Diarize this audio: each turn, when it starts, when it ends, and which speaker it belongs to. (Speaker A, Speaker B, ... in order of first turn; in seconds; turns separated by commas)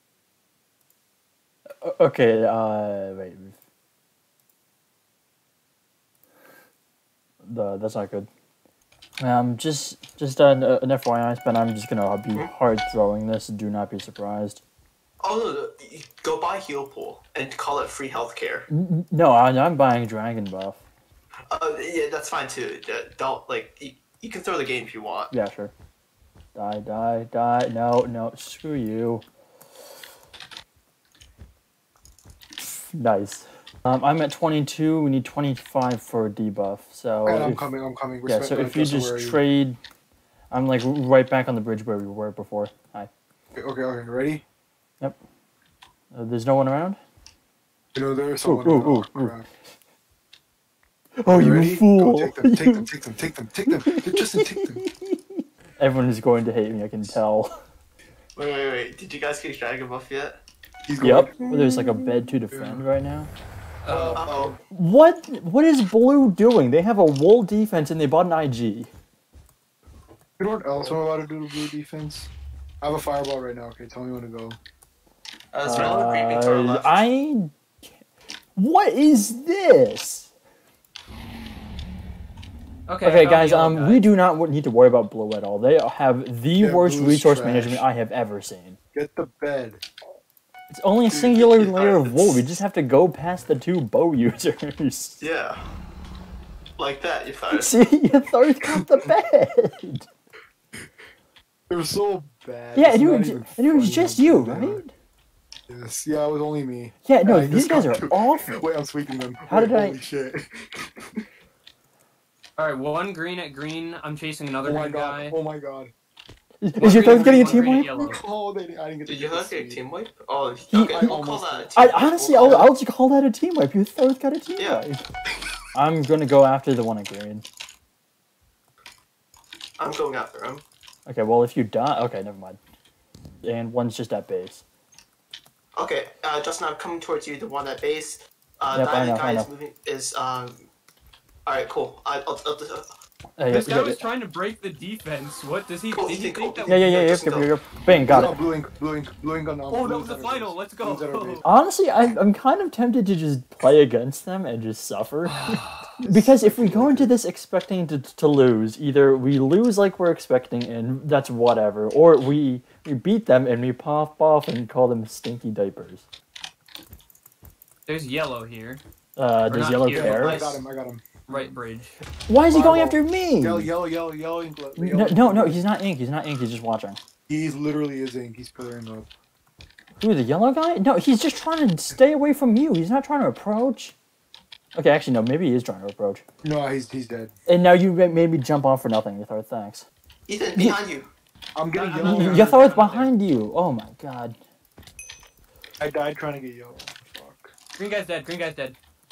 Speaker A: 1.8-3.6, Speaker A: 7.4-8.3, Speaker A: 9.2-14.6, Speaker B: 15.2-18.6, Speaker A: 18.7-20.8, Speaker B: 21.5-25.3, Speaker A: 25.3-25.7, Speaker A: 26.6-29.2, Speaker A: 32.6-37.7, Speaker C: 37.2-39.4, Speaker A: 38.2-39.8, Speaker A: 40.5-43.1, Speaker C: 43.5-44.4, Speaker A: 46.1-47.0, Speaker C: 47.9-49.5, Speaker A: 48.4-49.4, Speaker A: 51.2-52.9, Speaker C: 51.3-54.9, Speaker A: 53.7-55.2, Speaker A: 55.8-57.5, Speaker B: 58.4-60.4, Speaker C: 60.9-61.5, Speaker A: 61.0-63.3, Speaker B: 61.4-62.4, Speaker C: 62.4-62.8, Speaker D: 63.8-64.2, Speaker C: 63.9-64.6, Speaker B: 64.1-64.6, Speaker A: 64.7-68.9, Speaker C: 70.4-74.6, Speaker B: 75.5-77.0, Speaker A: 75.7-77.5, Speaker A: 78.6-80.3, Speaker D: 82.9-84.0, Speaker A: 83.0-88.8, Speaker C: 86.6-87.9, Speaker C: 88.9-89.8, Speaker A: 90.7-95.2, Speaker C: 91.1-91.5, Speaker B: 91.4-92.6, Speaker B: 95.2-95.6, Speaker B: 96.8-97.7, Speaker A: 97.5-100.1, Speaker C: 101.7-104.8, Speaker A: 102.8-104.9, Speaker C: 105.7-111.2, Speaker A: 107.0-108.6, Speaker A: 109.5-110.0, Speaker D: 112.6-115.4, Speaker C: 114.6-115.9, Speaker A: 116.6-117.9, Speaker C: 116.8-119.8, Speaker D: 116.8-118.2, Speaker B: 119.1-122.6, Speaker A: 120.7-121.0, Speaker C: 120.9-122.7, Speaker A: 121.8-125.0, Speaker B: 124.6-124.8, Speaker A: 125.8-127.5, Speaker B: 129.8-130.6, Speaker A: 131.1-132.6, Speaker A: 133.4-134.6, Speaker B: 135.8-140.7, Speaker A: 138.7-139.5, Speaker B: 141.5-142.9, Speaker A: 143.4-144.0, Speaker D: 143.5-146.8, Speaker B: 145.9-147.5, Speaker A: 146.7-148.4, Speaker C: 148.1-151.4, Speaker D: 149.7-151.5, Speaker A: 151.4-166.1, Speaker B: 155.3-155.7, Speaker C: 156.0-157.2, Speaker D: 167.9-168.8, Speaker A: 169.2-170.4, Speaker D: 169.4-170.4, Speaker C: 169.9-171.6, Speaker B: 170.2-170.6, Speaker D: 171.3-171.9, Speaker A: 172.3-173.7, Speaker C: 172.5-175.6, Speaker A: 174.8-177.0, Speaker C: 177.3-179.1, Speaker A: 180.0-183.9, Speaker A: 184.8-186.2, Speaker C: 186.4-187.3, Speaker A: 187.5-189.9, Speaker B: 190.3-191.1, Speaker C: 191.6-192.5, Speaker D: 191.7-193.1, Speaker B: 191.9-192.6, Speaker A: 192.0-194.4, Speaker C: 195.8-197.5, Speaker D: 197.8-198.8